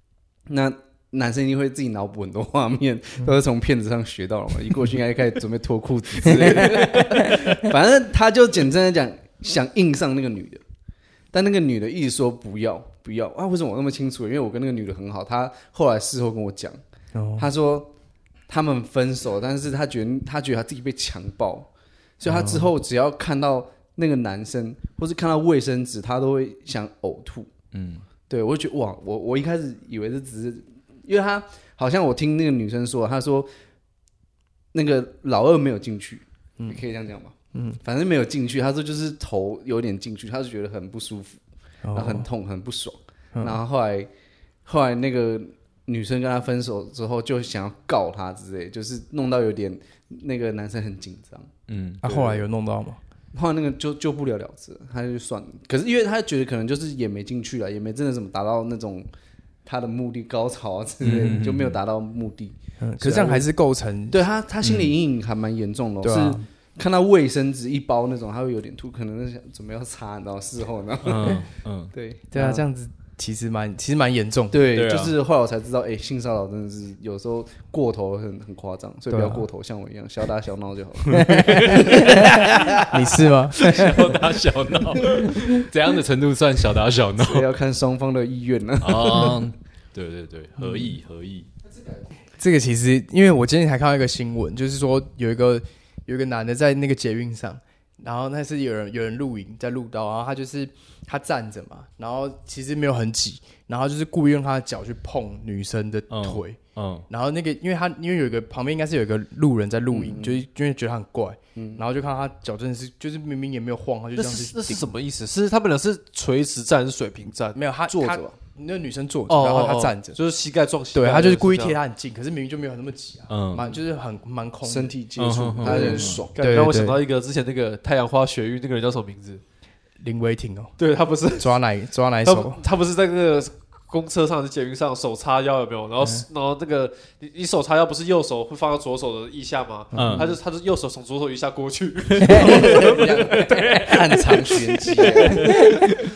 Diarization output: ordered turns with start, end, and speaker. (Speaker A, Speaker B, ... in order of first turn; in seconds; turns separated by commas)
Speaker A: 0.5-10.6, Speaker B: 6.2-7.5, Speaker A: 11.3-16.8, Speaker B: 17.1-17.5, Speaker A: 17.4-17.9, Speaker A: 18.5-27.5, Speaker B: 22.2-22.7, Speaker C: 27.7-28.1, Speaker A: 28.3-33.5, Speaker A: 34.7-41.4, Speaker B: 37.5-37.8, Speaker B: 41.8-42.3, Speaker A: 41.9-44.1, Speaker B: 43.4-43.6, Speaker A: 44.7-51.5, Speaker C: 51.7-52.0, Speaker B: 52.0-53.0, Speaker A: 52.0-52.4, Speaker A: 53.3-59.1, Speaker A: 59.6-63.5, Speaker C: 61.0-61.8, Speaker B: 62.8-64.2, Speaker A: 64.1-72.6, Speaker C: 64.6-64.9, Speaker B: 66.0-66.5, Speaker C: 71.0-71.9, Speaker B: 72.3-74.6, Speaker A: 74.5-82.8, Speaker C: 74.7-75.2, Speaker B: 79.1-79.5, Speaker B: 81.1-82.3, Speaker C: 81.2-83.0, Speaker B: 82.8-84.2, Speaker C: 83.5-87.5, Speaker A: 87.2-89.4, Speaker C: 88.8-91.5, Speaker B: 92.4-114.9, Speaker C: 106.1-107.1, Speaker A: 109.9-110.4, Speaker A: 111.6-111.8, Speaker D: 114.2-117.6, Speaker B: 117.5-120.2, Speaker A: 117.9-118.4, Speaker D: 119.3-121.8, Speaker B: 120.9-125.0, Speaker C: 123.3-123.7, Speaker A: 124.6-126.6, Speaker C: 125.2-126.2, Speaker B: 125.6-127.0, Speaker D: 126.3-129.4, Speaker B: 130.0-130.8, Speaker D: 130.8-131.6, Speaker B: 131.4-132.6, Speaker D: 132.2-145.7, Speaker B: 139.9-140.3, Speaker C: 139.9-140.3, Speaker B: 142.2-142.8, Speaker A: 142.4-145.6, Speaker B: 145.4-145.9